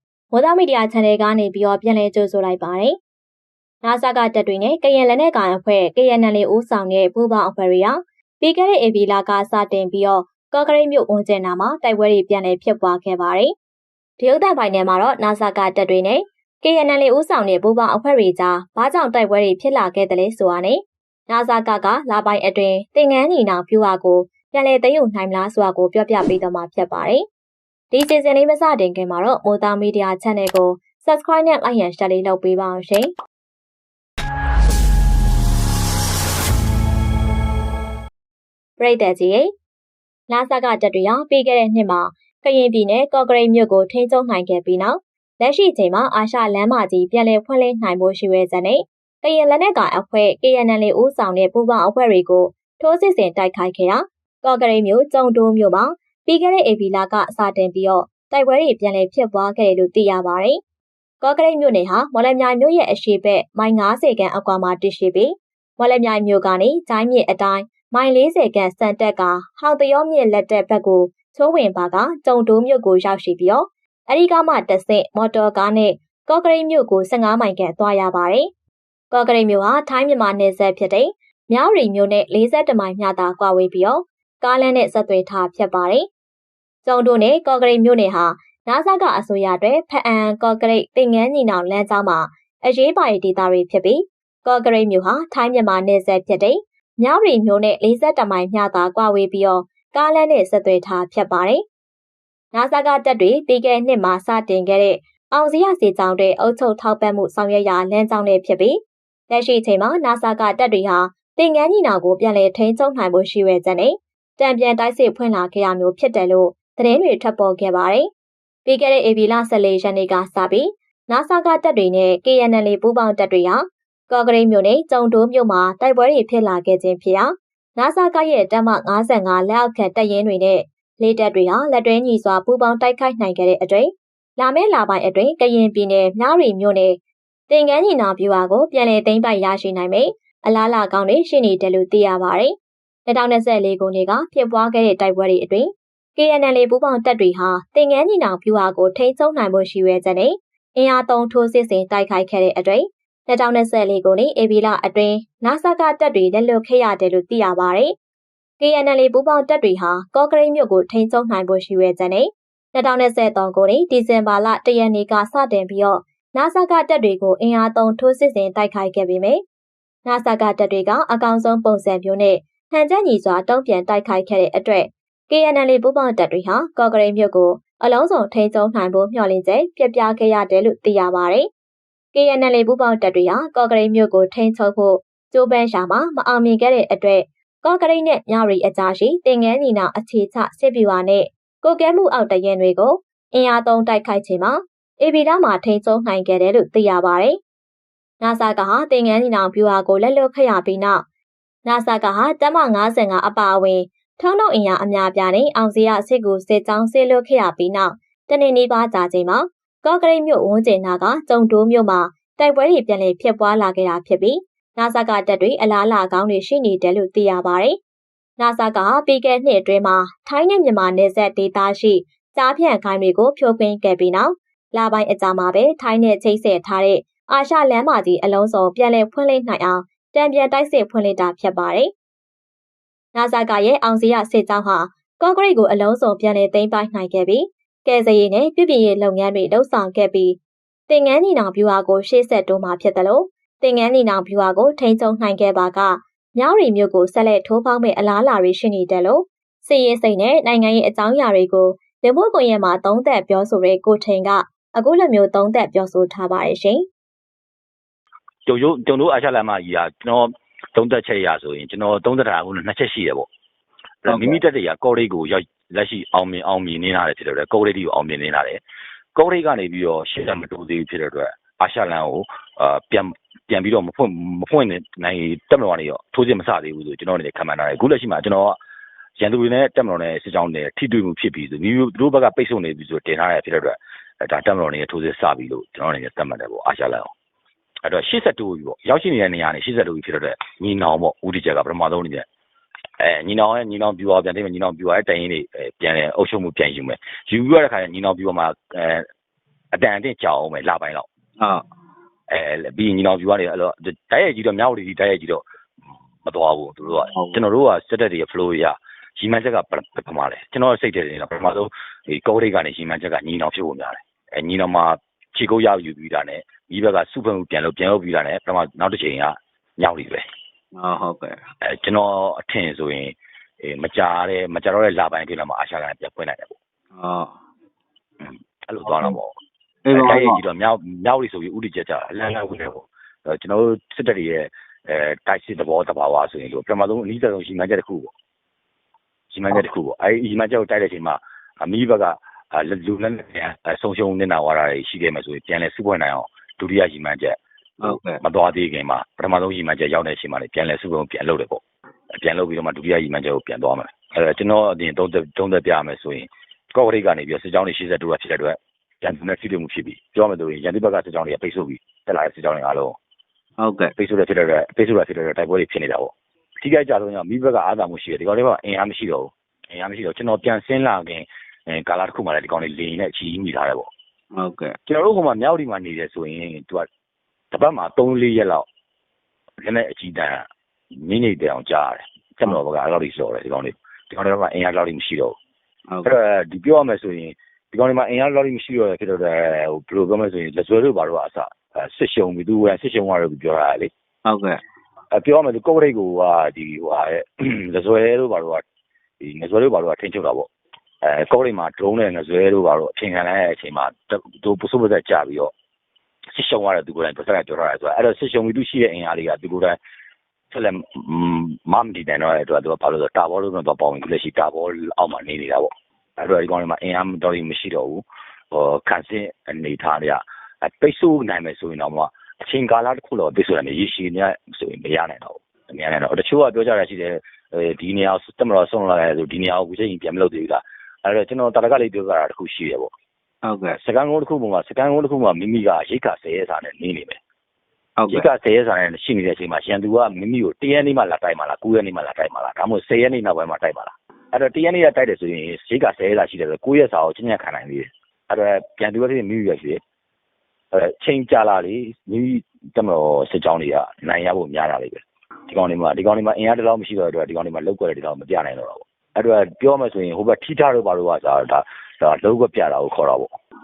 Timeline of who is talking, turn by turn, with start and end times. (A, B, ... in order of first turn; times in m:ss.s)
0:00.3-0:03.0 A
0:03.8-0:13.5 A
0:14.2-0:27.2 A
0:27.9-0:33.1 A
0:38.8-0:39.5 A
0:40.3-1:00.6 A
1:01.2-1:18.5 A
1:19.1-1:26.1 A
1:26.8-1:41.6 A
1:42.5-1:58.1 A
1:58.7-2:22.5 A
2:23.1-2:37.9 A
2:38.6-2:49.4 A
2:50.0-3:01.5 A
3:02.1-3:17.4 A
3:18.2-3:21.0 A
3:21.7-3:37.8 A
3:38.4-3:51.9 A
3:53.1-4:00.4 A
4:00.9-4:16.8 A
4:18.5-4:23.3 B
4:24.0-4:28.6 B
4:24.1-4:24.4 C
4:29.2-4:38.6 B
4:39.2-4:47.1 B
4:47.8-4:52.3 B
4:53.0-4:59.1 B
4:59.7-5:01.1 B
5:02.3-5:05.4 B
5:06.2-5:20.2 B
5:07.0-5:07.4 C
5:20.8-5:21.4 C
5:21.6-5:26.6 B
5:26.9-5:27.3 C
5:28.2-5:29.4 B
5:28.9-5:29.2 C
5:29.8-5:30.4 C
5:29.9-5:38.1 B
5:39.3-5:51.6 B
5:47.8-5:48.2 C
5:52.2-6:03.0 B
6:03.6-6:03.9 C
6:04.0-6:13.9 B
6:14.4-6:14.8 C
6:14.9-6:16.9 B
6:17.5-6:18.7 B
6:19.6-6:20.5 B
6:21.0-6:25.4 B
6:25.9-6:26.2 C
6:26.0-6:33.9 B
6:34.3-6:34.6 C
6:35.1-6:38.6 B
6:39.2-6:40.5 B
6:41.0-6:45.5 B
6:46.3-6:49.8 B
6:50.5-7:12.9 B
7:13.5-7:13.8 C
7:13.8-7:17.2 B
7:18.0-7:18.3 C
7:18.1-7:29.8 B
7:30.7-7:43.3 B